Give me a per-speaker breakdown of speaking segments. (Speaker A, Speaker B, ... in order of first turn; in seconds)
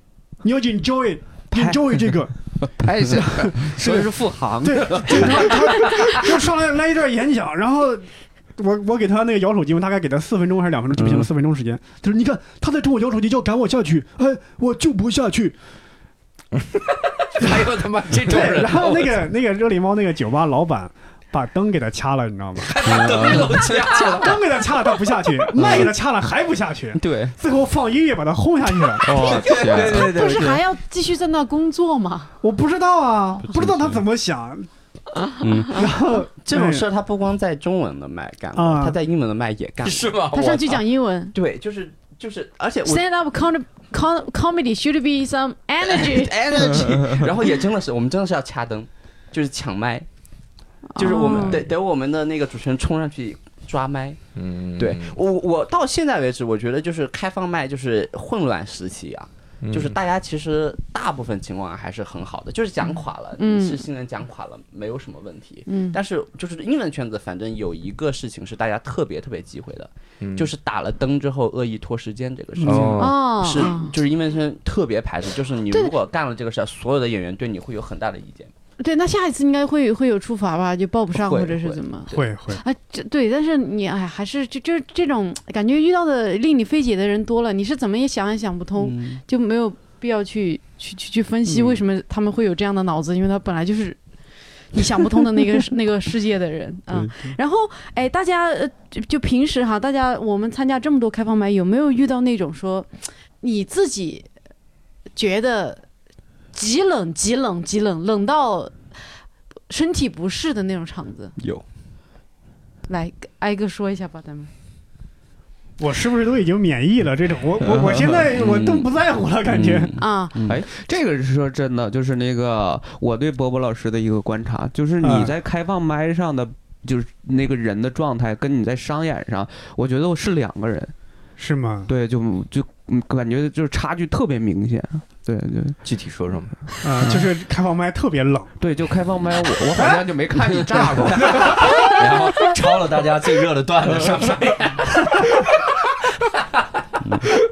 Speaker A: 0.4-2.3, 3.4-8.1, 8.6-15.6, 18.2-23.0, 23.9-29.3, 32.4-34.7, 35.6-36.9, 38.5-39.0, 72.6-73.0, 82.1-82.6, 91.5-91.8, 115.8-120.0, 125.0-125.3, 131.4-131.9, 136.8-138.5
Speaker B: 1.5-5.9, 11.0-11.2, 22.8-23.6, 29.0-30.5, 117.6-118.3, 120.5-130.9, 131.9-135.8, 137.0-137.3, 138.6-141.7
Speaker C: 16.6-19.2, 22.6-24.4, 29.1-30.6, 39.8-40.8, 54.3-55.1, 59.6-60.0, 70.2-70.5, 72.6-73.2, 135.8-136.7, 141.1-146.6
Speaker D: 25.6-25.9, 35.4-40.1, 41.3-43.0, 45.8-50.1, 51.0-54.2, 54.8-78.5, 81.1-81.8, 88.8-89.2, 118.3-118.8, 119.5-120.6, 147.0-147.3
Speaker E: 29.1-32.3, 40.3-41.3, 42.8-46.4, 50.9-51.6, 63.4-63.8, 65.7-66.0, 73.0-73.9, 78.8-94.0, 94.7-102.9, 103.4-104.3, 105.1-105.8, 106.5-108.7, 109.7-111.3, 112.9-114.5, 120.0-120.3